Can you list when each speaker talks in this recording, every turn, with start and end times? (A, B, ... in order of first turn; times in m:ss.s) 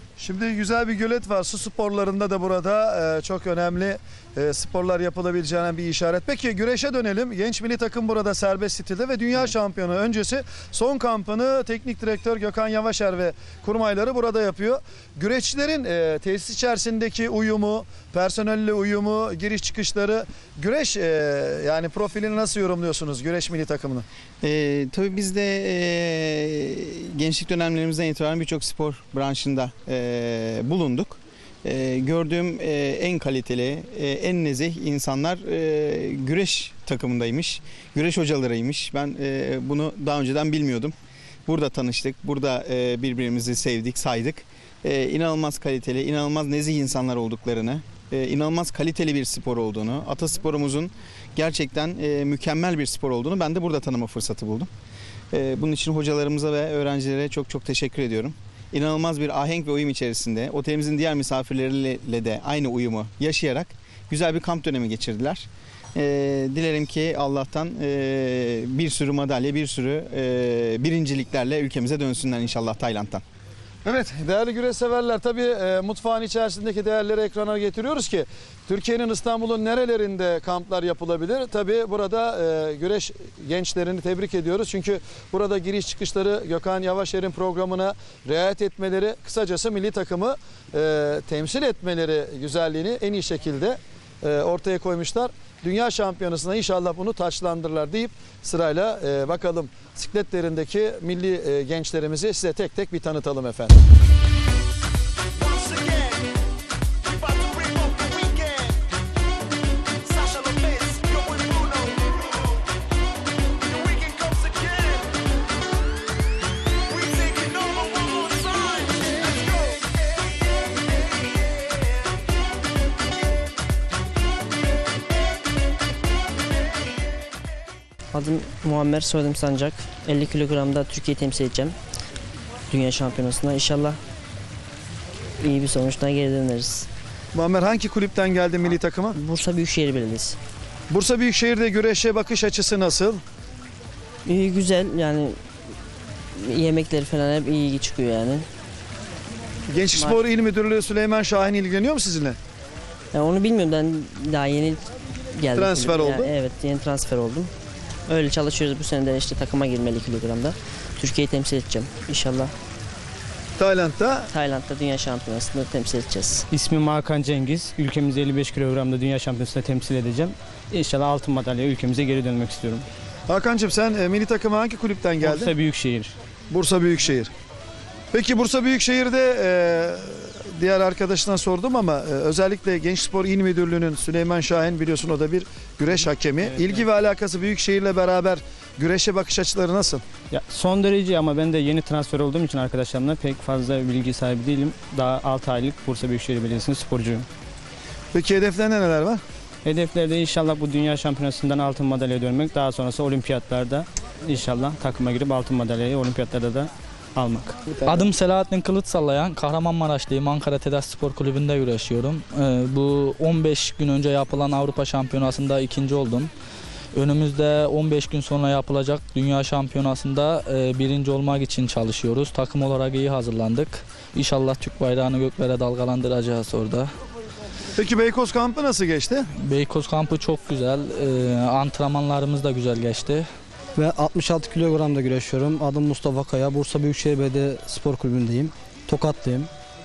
0:00.2-0:24.0 A
0:24.4-0:40.9 B
0:41.5-0:54.7 B
0:55.3-1:13.2 B
1:13.8-1:43.8 A
1:45.5-1:46.2 A
1:47.3-1:48.7 A
1:50.2-1:52.0 A
1:53.8-1:55.0 A
1:57.1-1:58.7 A
2:08.1-2:11.8 C
2:12.7-2:14.0 C
2:15.4-2:16.9 C
2:17.3-2:19.2 A
2:19.1-2:20.4 C
2:20.9-2:23.2 A
2:24.2-2:25.4 C
2:26.3-2:28.5 C
2:29.7-2:32.4 A
2:29.9-2:30.2 C
2:33.1-2:37.5 C
2:35.5-2:36.4 A
2:38.1-2:42.5 C
2:43.6-2:44.3 A
2:44.3-2:46.4 C
2:46.5-2:52.8 D
2:53.3-2:55.5 A
2:55.2-2:56.1 D
2:56.5-2:57.3 A
2:58.1-3:10.0 A
3:06.4-3:06.8 D
3:10.3-3:17.2 D
3:18.1-3:19.2 A
3:19.6-3:28.0 D
3:27.8-3:36.3 E
3:36.9-3:46.9 E
3:47.8-3:49.3 A
3:49.4-3:53.3 E
3:53.8-3:59.5 F